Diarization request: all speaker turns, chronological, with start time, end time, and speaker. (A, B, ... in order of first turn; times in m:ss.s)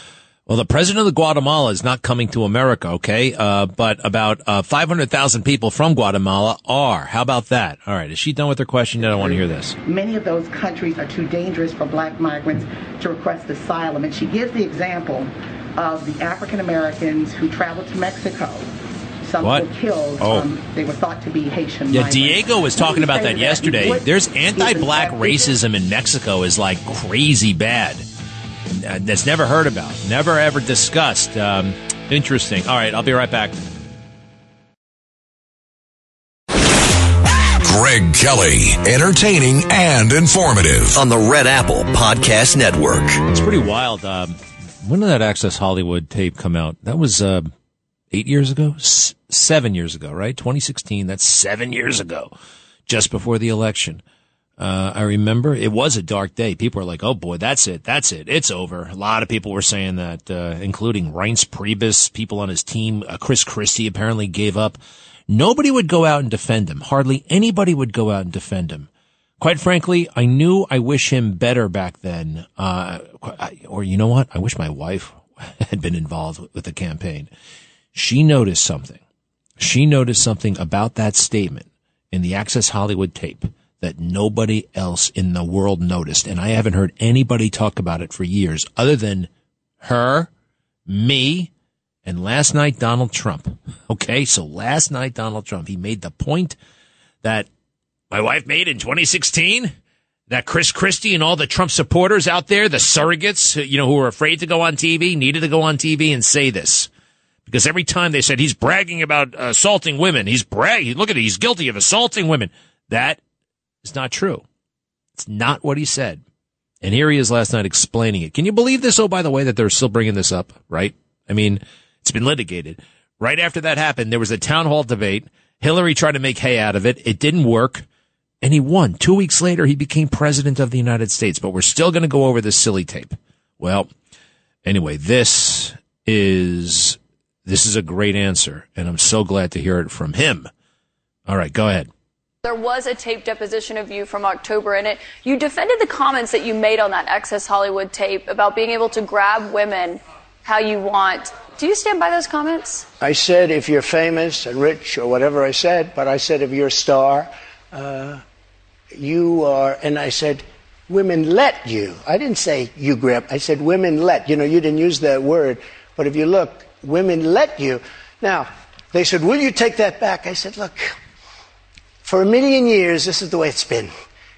0:00.5-0:09.8 A
0:09.8-0:18.7 B
0:19.2-0:25.6 B
0:20.2-0:20.5 A
0:21.9-0:28.0 A
0:28.7-0:33.6 A
0:37.6-0:41.0 C
0:40.9-0:43.2 D
0:43.3-0:47.5 A
0:48.1-0:52.3 A
0:52.9-0:54.0 A
0:54.6-1:08.9 A
1:09.4-1:17.3 A
1:17.9-1:19.0 A
1:19.6-1:29.3 A
1:29.8-1:30.3 A
1:30.9-1:31.5 A
1:32.0-1:36.6 A
1:37.2-1:37.5 A
1:38.1-1:39.7 A
1:40.3-1:46.9 A
1:47.4-1:53.2 A
1:53.8-1:54.4 A
1:55.2-1:56.2 A
1:56.8-2:07.8 A
2:08.4-2:13.9 A
2:14.6-2:20.5 A
2:21.3-2:21.9 A
2:22.4-2:32.8 E
2:33.0-2:38.2 F
2:38.9-2:50.9 F
2:52.0-2:53.9 F